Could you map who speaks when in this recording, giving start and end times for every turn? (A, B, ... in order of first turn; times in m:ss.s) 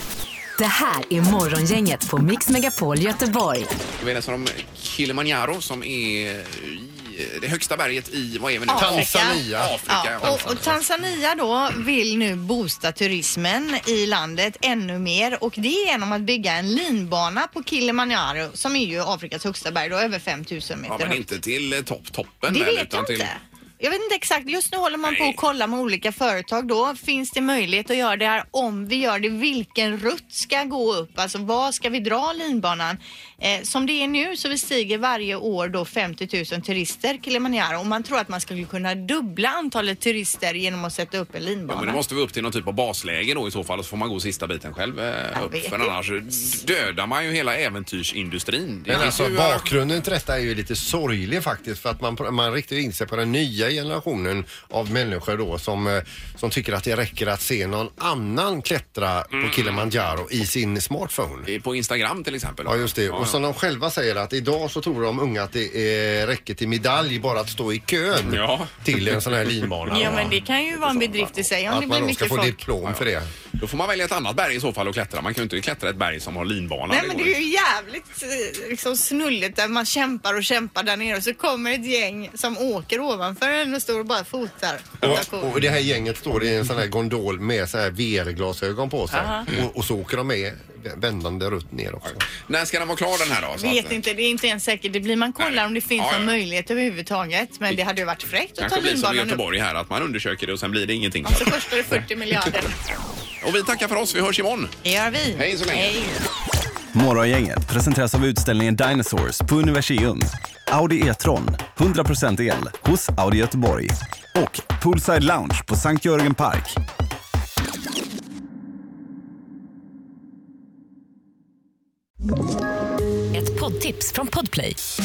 0:00.6-0:03.7 A
0:04.0-0:10.7 B
0:08.7-0:21.2 C
0:08.7-0:10.7 D
0:20.9-0:23.3 B
0:22.5-0:42.0 C
0:25.0-0:25.4 B
0:41.7-0:49.7 B
0:45.3-0:45.9 C
0:48.9-1:01.5 D
0:59.3-0:59.9 B
1:01.5-1:03.4 B
1:02.6-1:10.4 D
1:08.2-1:10.2 B
1:09.9-1:12.6 C
1:11.6-1:13.3 D
1:13.6-1:17.3 B
1:16.9-1:25.5 C
1:25.0-1:32.2 D
1:29.1-1:29.5 C
1:32.0-1:34.0 B
1:33.6-1:39.4 C
1:35.4-1:36.3 B
1:38.6-1:41.7 B
1:41.2-1:42.8 C
1:43.4-1:44.7 B
1:44.8-1:46.2 C
1:45.4-1:45.9 B
1:46.9-1:56.8 E
2:03.3-2:04.8 A